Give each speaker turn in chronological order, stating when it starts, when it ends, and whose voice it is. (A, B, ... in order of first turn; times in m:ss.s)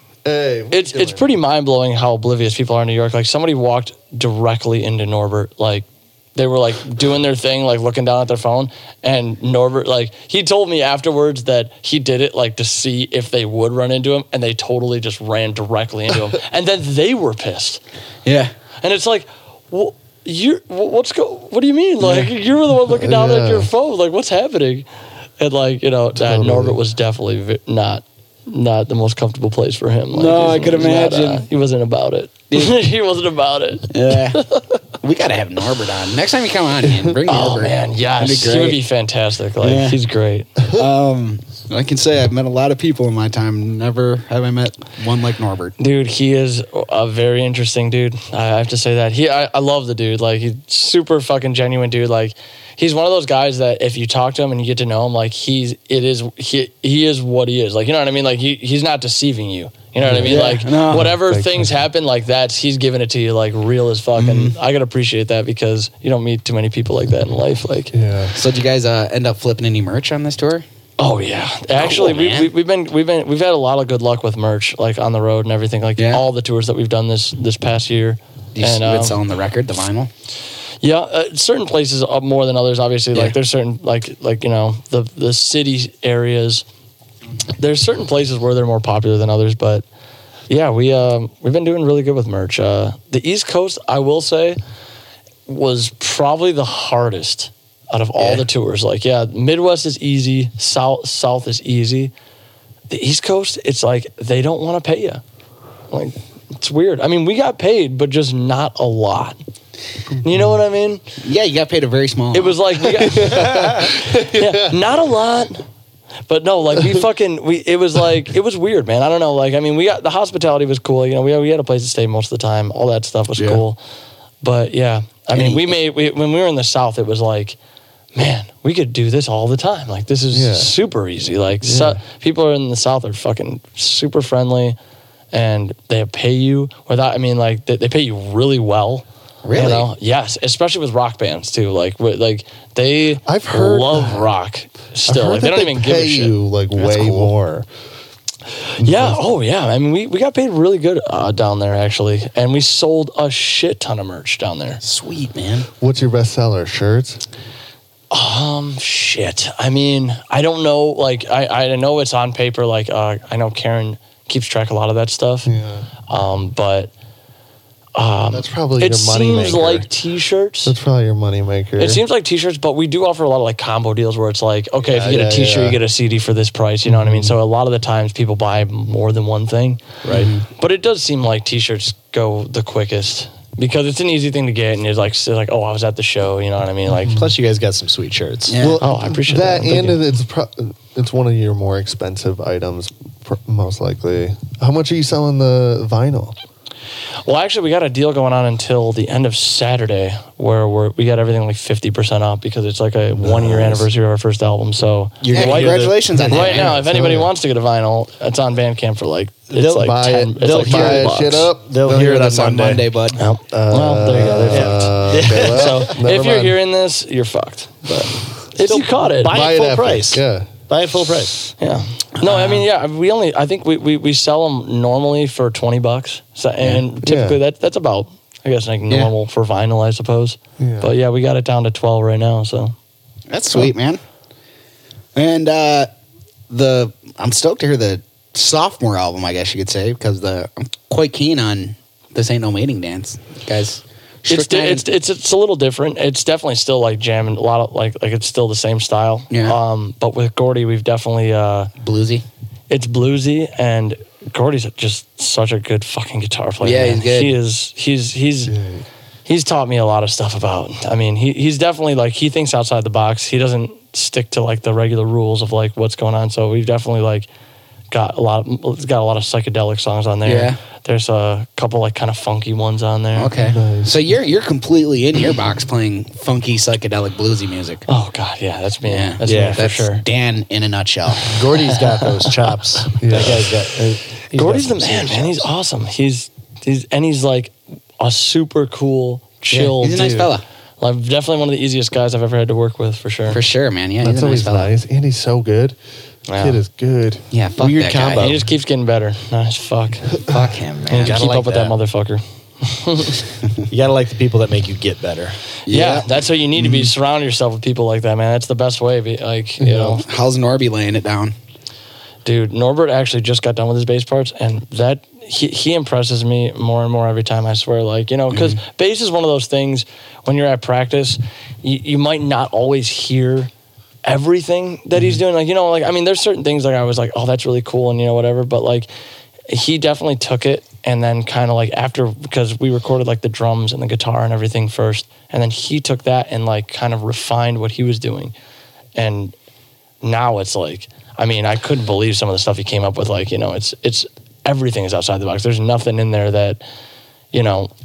0:00.2-0:01.3 A
0:00.7-0:17.8 B
0:18.2-0:18.5 C
0:18.8-0:24.9 B
0:22.0-0:22.3 C
0:22.8-0:23.7 A
0:25.4-0:34.8 B
0:26.2-0:26.8 A
0:30.1-0:31.5 C
0:32.5-0:32.8 C
0:33.9-0:34.4 C
0:35.0-0:38.8 C
0:36.8-0:37.1 A
0:37.3-0:40.5 B
0:39.6-0:40.0 C
0:40.7-0:45.8 C
0:45.8-1:07.9 B
1:00.0-1:01.8 A
1:00.2-1:01.1 C
1:04.2-1:04.6 C
1:07.9-1:08.4 A
1:08.3-1:10.6 C
1:11.0-1:19.2 B
1:11.8-1:12.5 C
1:16.0-1:16.2 C
1:18.6-1:20.1 C
1:20.8-1:26.6 B
1:27.6-1:29.9 B
1:30.5-1:34.6 B
1:35.5-1:42.1 B
1:38.2-1:38.4 C
1:42.9-1:45.2 B
1:45.9-1:49.4 B
1:50.2-1:50.6 A
1:50.2-1:51.0 B
1:51.2-1:52.6 C
1:52.3-1:55.6 B
1:52.8-1:54.8 A
1:56.3-2:03.8 B
2:04.4-2:07.6 B
2:05.3-2:05.7 C
2:08.1-2:14.8 B
2:10.3-2:10.8 A
2:11.6-2:12.0 A
2:15.3-2:27.3 B
2:19.4-2:19.9 C
2:23.3-2:24.3 A
2:25.1-2:27.7 A
2:28.8-2:29.2 A
2:28.8-2:34.8 B
2:34.8-2:35.7 C
2:35.8-2:37.2 A
2:38.1-2:45.5 B
2:45.4-2:45.9 A
2:46.1-2:46.9 B
2:48.0-2:50.8 B
2:48.3-2:49.9 A
2:50.6-2:52.0 A
2:51.8-3:00.0 B
2:54.8-2:55.8 A
2:56.9-2:57.4 A
3:00.1-3:00.4 C
3:00.6-3:07.1 B
3:07.0-3:07.3 A
3:07.0-3:08.6 D
3:08.5-3:08.8 C
3:08.6-3:16.4 A
3:08.8-3:10.0 B
3:17.2-3:31.5 B
3:23.2-3:23.9 A
3:25.2-3:26.5 D
3:25.3-3:26.8 C
3:26.1-3:27.3 A
3:29.5-3:32.2 D
3:29.7-3:32.8 A
3:31.9-3:33.2 C
3:33.2-3:38.0 B
3:33.5-3:36.6 A
3:34.5-3:35.9 D
3:37.9-3:38.1 A
3:38.5-3:39.5 B
3:38.6-3:41.4 D
3:39.2-3:40.5 A
3:41.6-3:52.7 B
3:42.2-3:42.6 C
3:47.0-3:47.4 A
3:50.6-3:50.9 A
3:53.3-3:54.0 C
3:55.1-3:55.9 C
3:56.5-4:04.9 C
4:04.3-4:11.7 B
4:09.3-4:09.6 C
4:11.8-4:12.2 C
4:12.7-4:18.5 B
4:16.6-4:17.4 C
4:18.5-4:18.9 A
4:19.3-4:27.3 B
4:27.9-4:33.3 B
4:30.3-4:30.6 C
4:33.1-4:37.9 C
4:33.4-4:34.0 A
4:37.9-4:40.0 B
4:38.9-4:41.4 C
4:39.2-4:39.7 D
4:41.2-4:45.5 D
4:43.0-4:43.6 A
4:44.3-4:50.3 B
4:49.5-4:50.4 C
4:50.0-4:50.3 A
4:50.8-4:53.4 B
4:53.3-4:54.7 C
4:54.0-4:55.8 A
4:56.3-4:56.6 B
4:56.4-4:57.2 A
4:57.3-4:58.4 C
4:57.6-4:58.4 D
4:58.2-5:00.1 B
5:00.2-5:01.3 C
5:00.9-5:03.2 B
5:00.9-5:01.8 D
5:03.7-5:05.4 D
5:05.7-5:06.9 C
5:05.7-5:10.0 B
5:09.7-5:11.4 C
5:12.2-5:23.5 B
5:18.3-5:18.6 C
5:24.0-5:28.9 B
5:25.0-5:25.2 C
5:29.5-5:38.3 B
5:39.0-5:39.4 B
5:40.0-5:46.6 B
5:47.3-5:47.7 B